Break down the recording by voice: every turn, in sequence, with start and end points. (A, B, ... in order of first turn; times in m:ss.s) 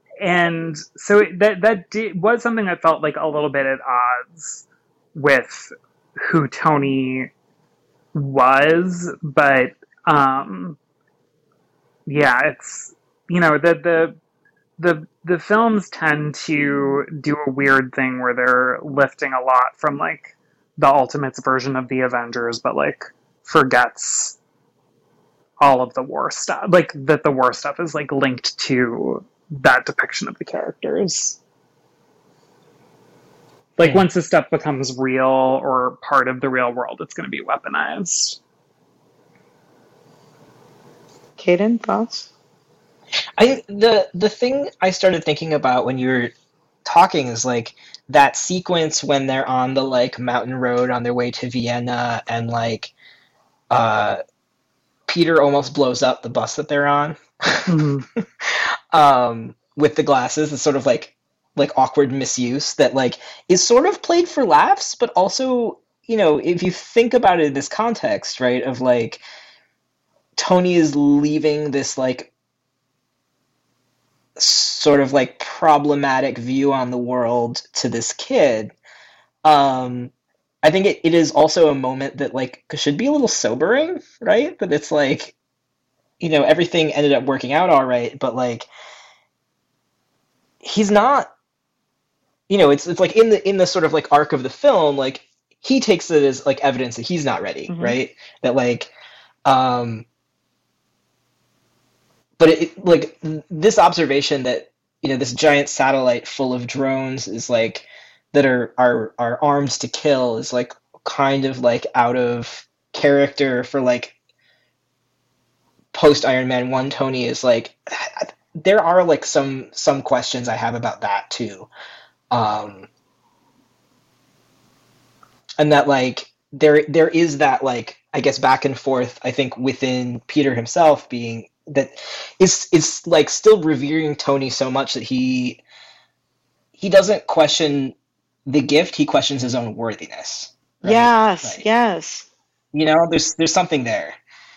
0:00.2-0:07.3 A
0:08.1-0:10.8 A
0:12.0-0:14.2 A
0:14.8-0:24.4 A
0:25.6-0:31.4 A
0:33.8-0:38.4 A
0:41.4-0:42.3 B
0:43.4-0:46.3 C
0:46.8-0:52.9 C
0:53.7-0:54.2 C
0:55.1-1:09.2 C
0:57.7-0:58.0 A
1:10.4-1:12.3 C
1:14.4-1:18.7 C
1:19.4-1:20.1 C
1:20.6-1:25.3 C
1:26.2-1:28.7 C
1:30.6-1:31.3 C
1:32.5-1:38.9 C
1:37.7-1:38.0 B
1:39.4-1:40.0 C
1:42.4-1:54.1 C
1:55.9-2:01.7 C
2:02.3-2:02.9 C
2:05.6-2:15.6 C
2:16.8-2:17.9 C
2:18.4-2:21.6 C
2:20.8-2:22.3 B
2:22.7-2:24.2 C